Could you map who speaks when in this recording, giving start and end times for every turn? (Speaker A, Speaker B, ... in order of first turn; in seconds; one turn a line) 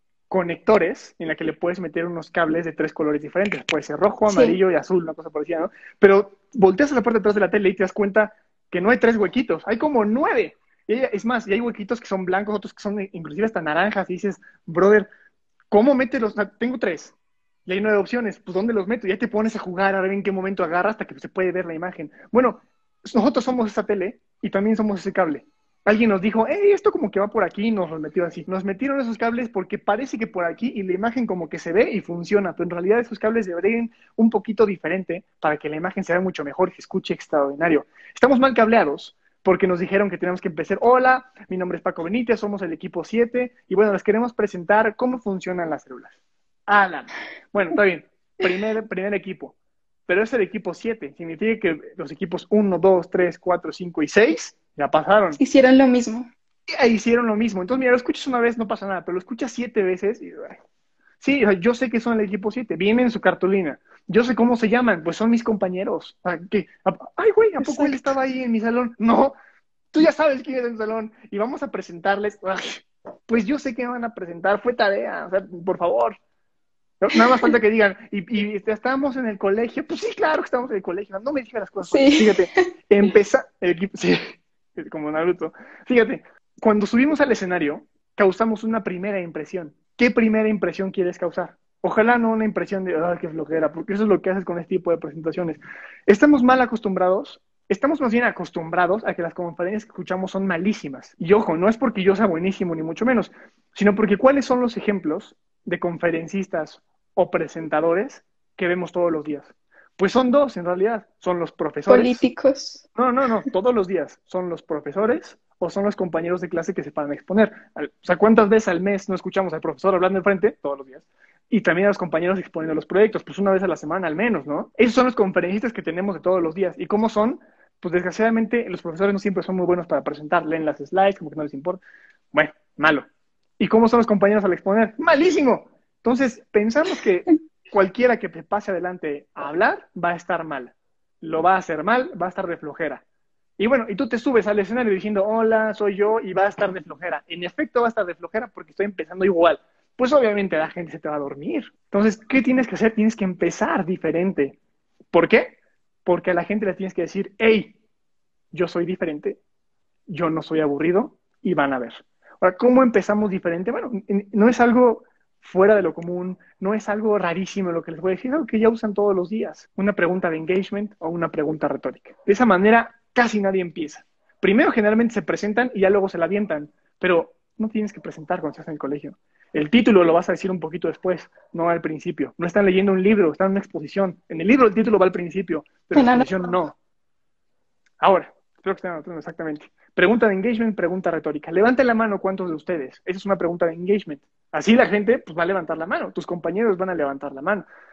Speaker A: 0.3-15.1
Speaker B: 4.3-4.6
Speaker A: 15.7-17.1
Speaker A: 17.7-49.6
Speaker A: 50.1-55.4
Speaker B: 55.4-56.3
Speaker A: 56.7-60.6
Speaker A: 61.2-69.3
Speaker B: 67.6-67.9
Speaker A: 69.9-76.2
Speaker A: 77.0-112.2
Speaker B: 81.9-82.5
Speaker B: 111.9-112.8
Speaker A: 113.0-131.8
Speaker A: 132.3-133.1
Speaker A: 133.6-143.0
Speaker A: 143.6-154.6
Speaker A: 155.1-157.8
Speaker A: 158.5-159.4
Speaker A: 160.1-186.8
Speaker B: 185.9-186.6
Speaker A: 188.0-197.7